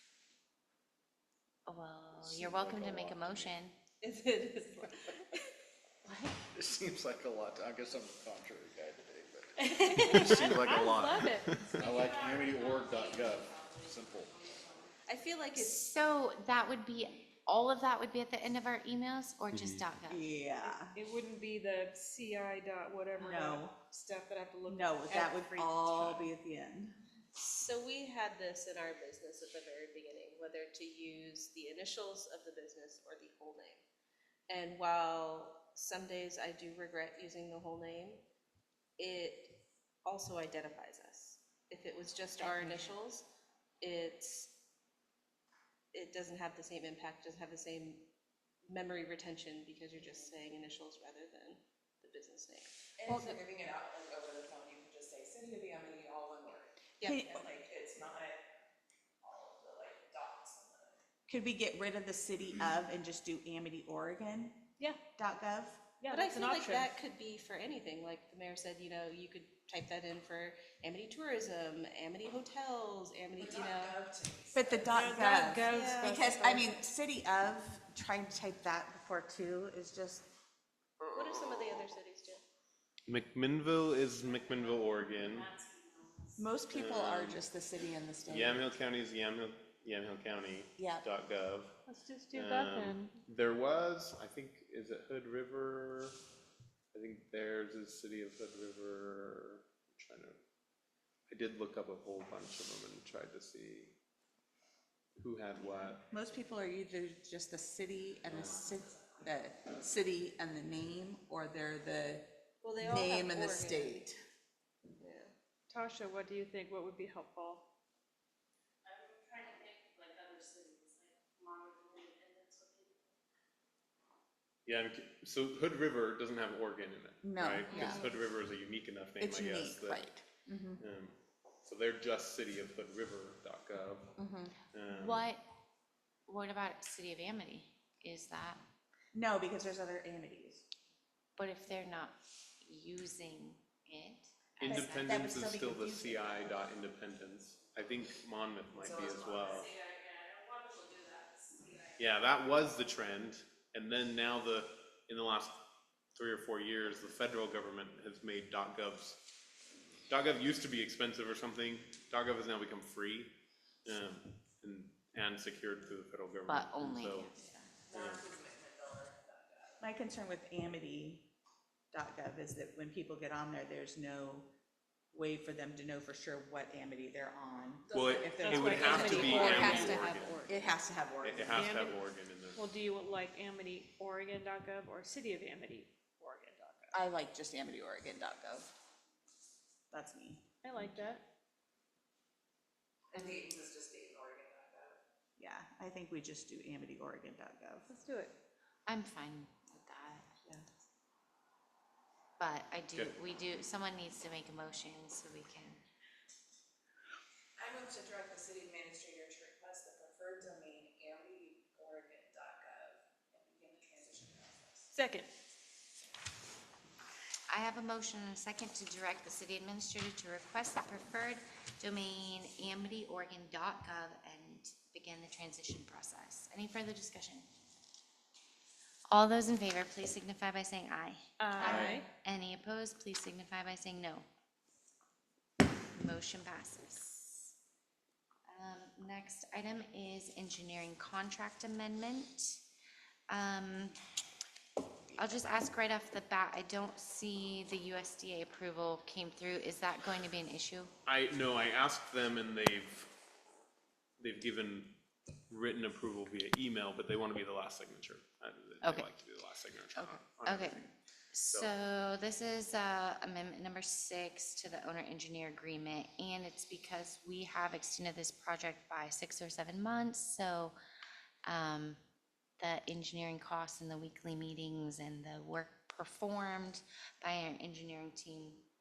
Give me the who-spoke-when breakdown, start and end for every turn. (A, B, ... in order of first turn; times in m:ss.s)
0:01.7-0:03.8 A
0:02.2-0:03.6 B
0:04.0-0:05.4 C
0:06.5-0:14.5 B
0:09.7-0:10.7 C
0:10.1-0:14.9 D
0:15.1-0:15.9 C
0:15.6-0:20.3 A
0:19.5-0:19.8 E
0:20.1-0:21.0 F
0:20.9-0:25.9 D
0:23.2-0:23.8 F
0:24.7-0:27.0 F
0:25.9-0:26.2 B
0:27.4-0:33.8 C
0:34.5-0:38.2 C
0:39.0-0:43.3 C
0:42.4-0:43.0 A
0:43.8-0:44.5 C
0:45.9-0:48.1 C
0:48.7-0:52.7 C
0:53.0-0:56.7 G
0:53.0-0:53.4 F
0:57.0-0:57.2 C
0:57.0-0:57.5 F
0:57.3-0:58.4 G
0:59.2-1:01.0 G
1:01.3-1:05.9 F
1:06.0-1:06.9 D
1:06.1-1:14.1 C
1:13.5-1:14.7 G
1:14.5-1:20.3 F
1:14.9-1:16.9 D
1:15.6-1:16.2 C
1:21.1-1:22.4 C
1:23.1-1:25.5 E
1:25.1-1:26.4 D
1:26.4-1:28.6 F
1:26.7-1:27.4 E
1:28.3-1:31.8 E
1:30.8-1:31.0 F
1:31.9-1:33.2 D
1:32.3-1:36.2 E
1:36.9-1:40.4 E
1:41.3-1:44.0 E
1:45.2-1:46.0 E
1:46.1-1:54.2 F
1:52.6-1:54.0 C
1:55.0-1:55.3 C
1:55.7-1:57.6 D
1:58.9-2:02.9 D
2:04.7-2:10.1 E
2:07.2-2:08.1 F
2:07.7-2:08.0 C
2:09.2-2:10.8 F
2:10.8-2:14.2 E
2:14.2-2:14.6 F
2:14.7-2:15.3 E
2:14.9-2:15.4 A
2:16.3-2:18.6 A
2:19.1-2:20.6 F
2:21.4-2:25.2 A
2:24.6-2:26.6 F
2:24.6-2:29.7 E
2:29.0-2:31.5 G
2:32.0-2:35.6 E
2:36.2-2:39.2 E
2:40.1-2:43.3 E
2:43.8-2:47.3 E
2:46.5-2:47.3 A
2:47.9-2:48.2 E
2:47.9-2:49.3 G
2:49.8-2:51.3 F
2:51.9-2:54.5 F
2:55.1-3:01.9 F
2:57.9-2:59.3 G
2:57.9-3:00.4 E
2:58.4-3:00.1 D
2:59.0-3:00.6 A
3:01.2-3:02.6 E
3:01.5-3:02.0 D
3:02.5-3:07.0 D
3:06.9-3:08.7 F
3:09.9-3:10.4 F
3:10.6-3:11.2 D
3:13.1-3:14.9 G
3:13.2-3:13.4 A
3:15.4-3:17.9 F
3:17.9-3:18.3 D
3:18.9-3:20.2 A
3:22.4-3:25.8 A
3:27.6-3:34.9 G
3:34.9-3:35.3 D
3:37.5-3:47.5 A
3:49.1-3:54.3 A
3:51.4-3:52.1 D
3:55.9-3:57.5 A
3:58.5-4:02.6 A
4:03.3-4:04.0 A
4:05.2-4:10.9 A
4:11.0-4:13.1 E
4:14.2-4:15.0 E
4:15.5-4:20.9 E
4:18.8-4:19.1 A
4:20.0-4:30.8 A
4:31.5-4:32.0 A
4:32.6-4:38.6 A